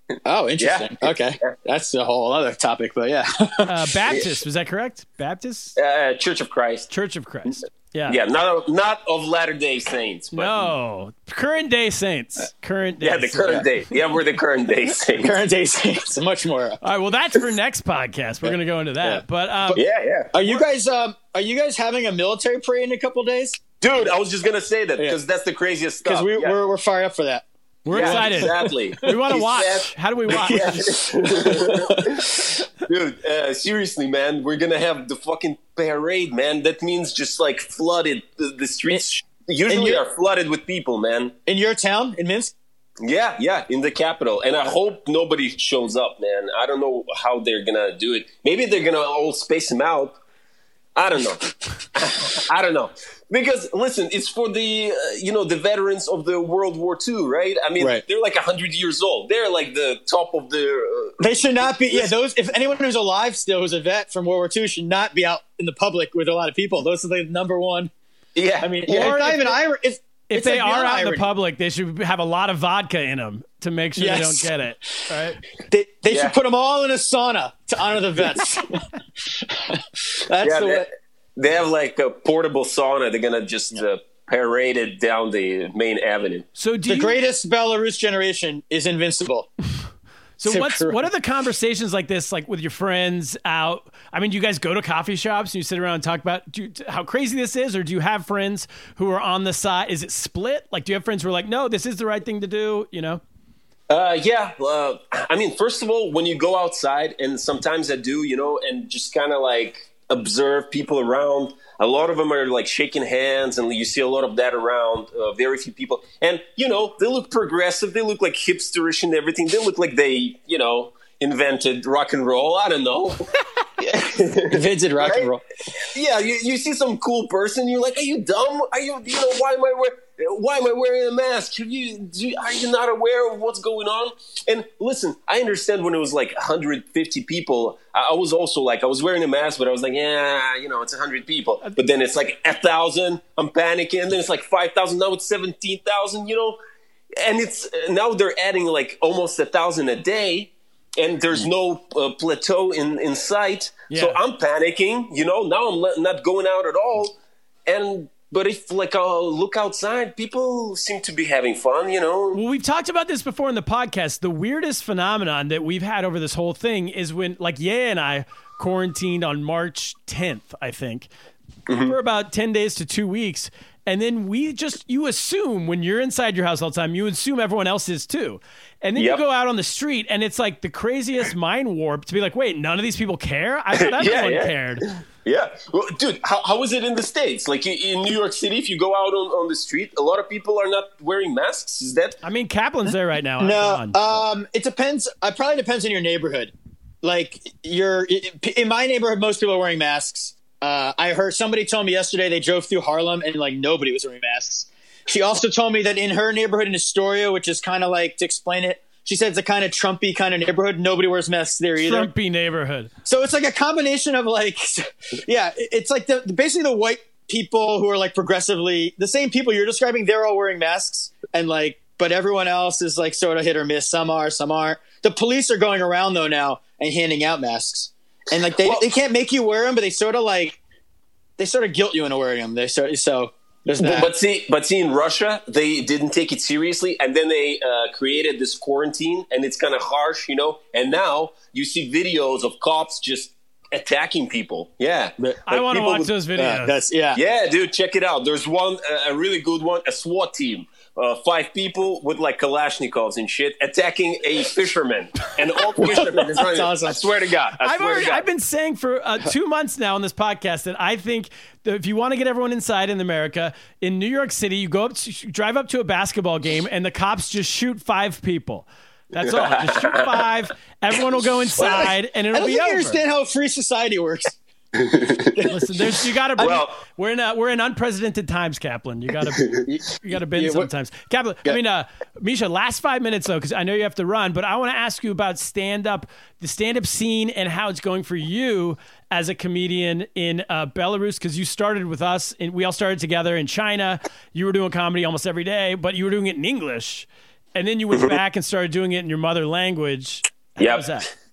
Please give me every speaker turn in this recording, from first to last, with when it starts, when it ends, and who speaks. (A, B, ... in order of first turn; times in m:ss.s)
0:00.2-0:04.1 A
0:00.6-0:01.5 B
0:03.6-0:05.7 C
0:05.8-0:06.9 B
0:06.9-0:08.2 C
0:08.1-0:10.7 B
0:10.3-0:13.7 C
0:13.0-0:15.4 B
0:15.1-0:16.8 A
0:16.8-0:19.8 C
0:19.0-0:19.8 A
0:19.7-0:20.6 B
0:20.3-0:23.6 A
0:23.8-0:26.6 B
0:26.0-0:29.2 A
0:27.8-0:30.8 C
0:27.9-0:41.3 B
0:30.3-0:32.6 A
0:39.7-0:40.0 A
0:41.4-0:42.5 A
0:43.0-0:50.2 B
0:51.0-1:02.1 B
1:01.2-1:07.9 A
1:08.3-1:09.3 B
1:08.6-1:11.3 A
1:08.9-1:09.5 C
1:10.3-1:15.4 C
1:14.0-1:14.5 A
1:15.7-1:20.8 A
1:16.1-1:16.4 B
1:20.4-1:26.5 B
1:26.6-1:27.2 C
1:26.9-1:29.5 A
1:30.4-1:43.2 C
1:30.4-1:31.1 A
1:43.9-2:05.3 B
2:04.5-2:05.4 A
2:05.9-2:26.6 B
2:27.2-2:42.4 B
2:33.9-2:34.2 C
2:42.3-2:51.1 C
2:51.7-2:51.9 B
2:51.8-3:04.8 C
2:59.0-2:59.2 B
3:03.8-3:12.2 B
3:12.2-3:14.2 C
3:12.8-3:32.1 A
3:31.8-3:32.9 C
3:33.0-3:50.6 A
3:51.4-3:54.1 A
3:53.8-4:06.1 B
4:05.5-4:06.8 C
4:06.4-4:07.2 A
4:07.1-4:18.2 B
4:15.8-4:17.0 A
4:17.6-4:33.0 C
4:29.2-4:30.2 B
4:31.6-4:34.4 A
4:34.8-4:35.4 B
4:35.4-5:01.1 C
4:36.4-4:36.8 B
4:39.6-4:40.7 A
5:00.6-5:01.0 B